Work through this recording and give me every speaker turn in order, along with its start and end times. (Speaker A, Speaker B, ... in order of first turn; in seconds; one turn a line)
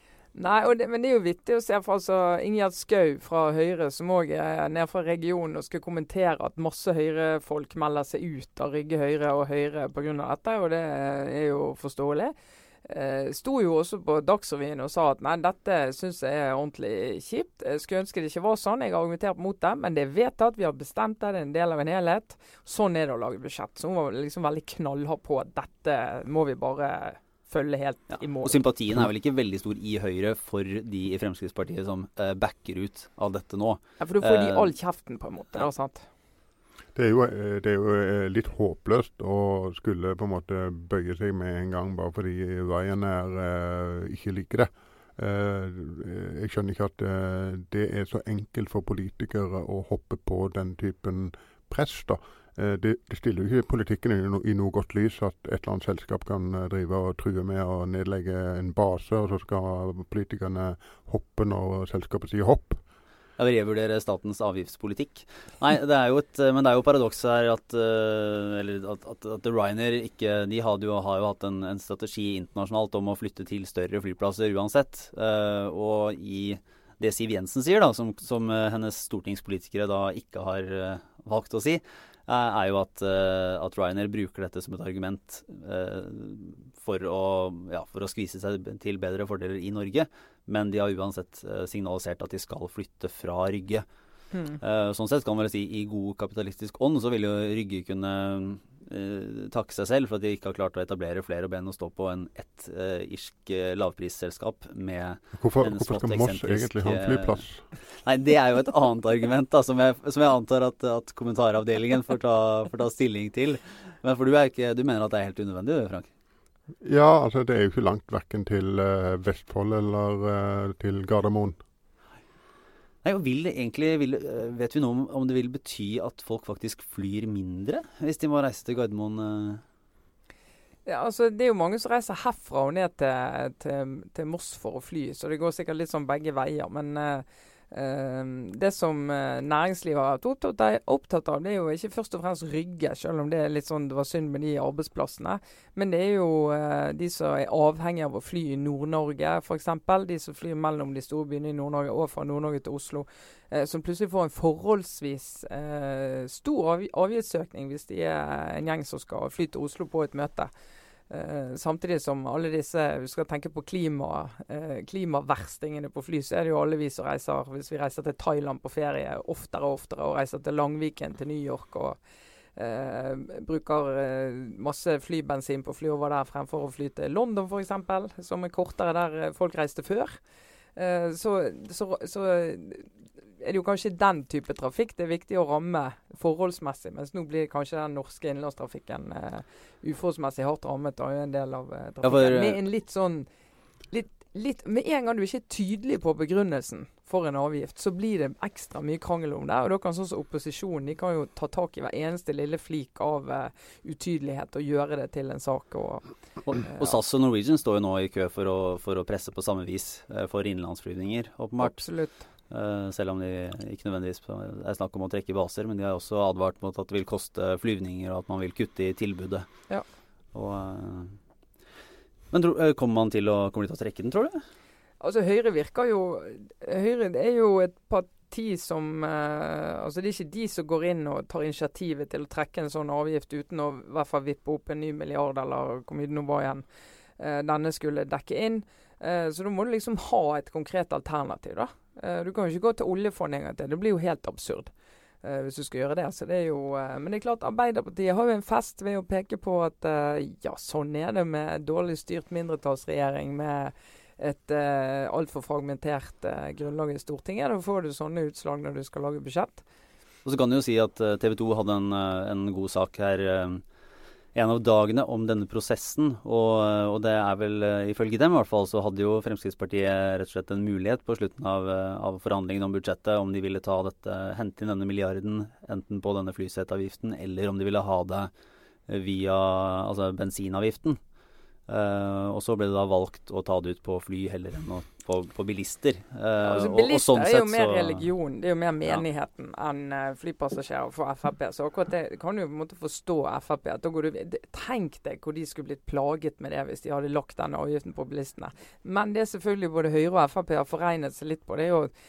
Speaker A: 0.3-12.3
Speaker A: 12.8-28.6
Speaker B: 28.4-34.7
Speaker A: 34.0-36.1
Speaker C: 36.9-62.8
Speaker B: 63.4-93.8
Speaker A: 94.3-94.6
Speaker B: 94.6-107.4
Speaker C: 105.4-107.6
Speaker B: 108.0-116.1
Speaker C: 116.8-121.6
Speaker B: 123.0-129.6
Speaker A: 130.8-160.5
Speaker A: 161.1-172.0
Speaker A: 172.6-180.2
Speaker A: 180.8-193.3
Speaker B: 192.0-192.6
Speaker A: 193.9-206.1
Speaker B: 206.5-211.9
Speaker A: 206.6-206.9
Speaker A: 211.6-212.2
Speaker B: 212.5-219.5
Speaker B: 220.3-221.2
Speaker B: 222.3-224.4
Speaker A: 225.0-236.6
Speaker A: 237.2-244.7
Speaker A: 245.2-259.6
Speaker B: 260.2-263.6
Speaker B: 264.3-278.3
Speaker B: 278.9-281.0
Speaker B: 281.7-288.1
Speaker A: 286.4-301.9